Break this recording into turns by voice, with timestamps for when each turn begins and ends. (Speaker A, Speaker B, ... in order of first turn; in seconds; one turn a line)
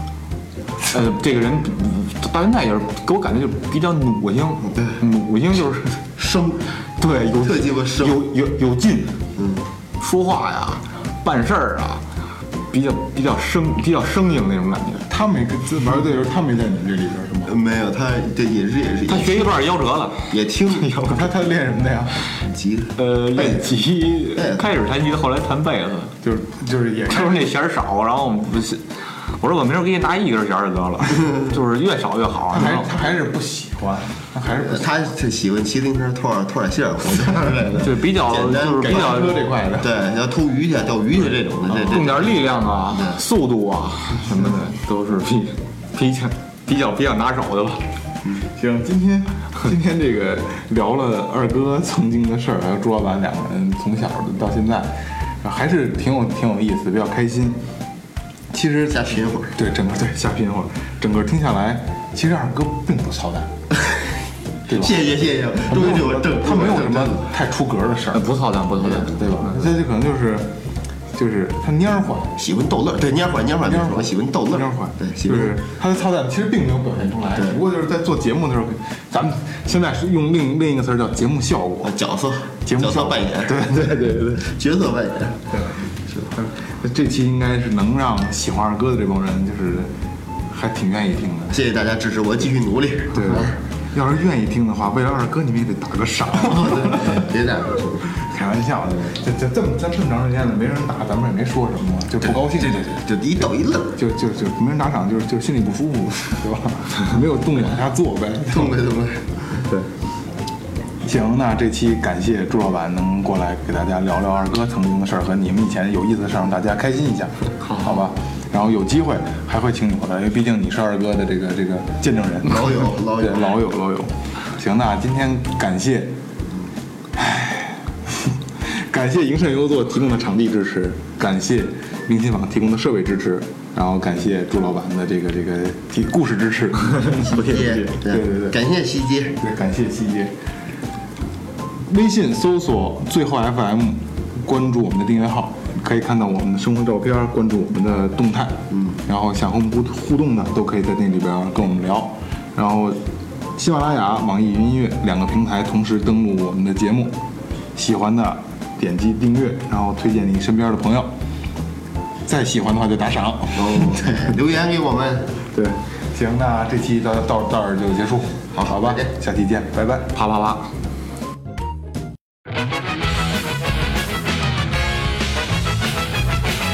Speaker A: 0.8-6.0
Speaker B: 6.2-6.6
Speaker A: 7.0-9.2
Speaker B: 7.4-8.2
Speaker B: 9.4-9.6
Speaker A: 10.0-12.0
Speaker A: 12.7-15.1
Speaker C: 15.1-17.5
Speaker B: 17.4-19.6
Speaker A: 19.1-21.2
Speaker B: 20.3-21.2
Speaker C: 21.1-22.2
Speaker B: 22.4-23.6
Speaker A: 22.9-26.1
Speaker B: 24.4-24.6
Speaker C: 26.2-27.4
Speaker A: 27.1-32.9
Speaker C: 32.5-34.9
Speaker B: 34.4-42.2
Speaker A: 37.8-39.4
Speaker C: 38.6-39.9
Speaker A: 41.7-47.8
Speaker B: 42.9-43.2
Speaker C: 48.5-57.6
Speaker C: 58.5-63.5
Speaker B: 58.9-59.5
Speaker C: 64.7-65.0
Speaker B: 64.7-67.3
Speaker C: 65.6-68.3
Speaker A: 68.1-69.7
Speaker C: 69.0-70.5
Speaker C: 71.1-72.3
Speaker B: 72.3-75.6
Speaker C: 73.6-81.9
Speaker B: 77.3-77.6
Speaker B: 81.8-85.5
Speaker C: 82.7-84.5
Speaker C: 85.5-89.9
Speaker C: 90.5-91.6
Speaker B: 91.5-93.5
Speaker C: 93.1-97.2
Speaker B: 96.4-98.1
Speaker C: 98.1-108.8
Speaker B: 102.2-104.0
Speaker B: 108.5-109.6
Speaker C: 111.0-126.2
Speaker A: 117.6-118.0
Speaker B: 122.5-123.5
Speaker C: 127.1-138.6
Speaker B: 137.2-139.3
Speaker A: 137.2-137.8
Speaker C: 139.4-140.3
Speaker C: 141.8-153.0
Speaker B: 148.7-149.0
Speaker C: 153.6-157.2
Speaker C: 157.7-161.1
Speaker C: 162.2-164.3
Speaker B: 163.5-165.4
Speaker C: 165.5-170.1
Speaker B: 168.5-169.1
Speaker A: 170.1-170.7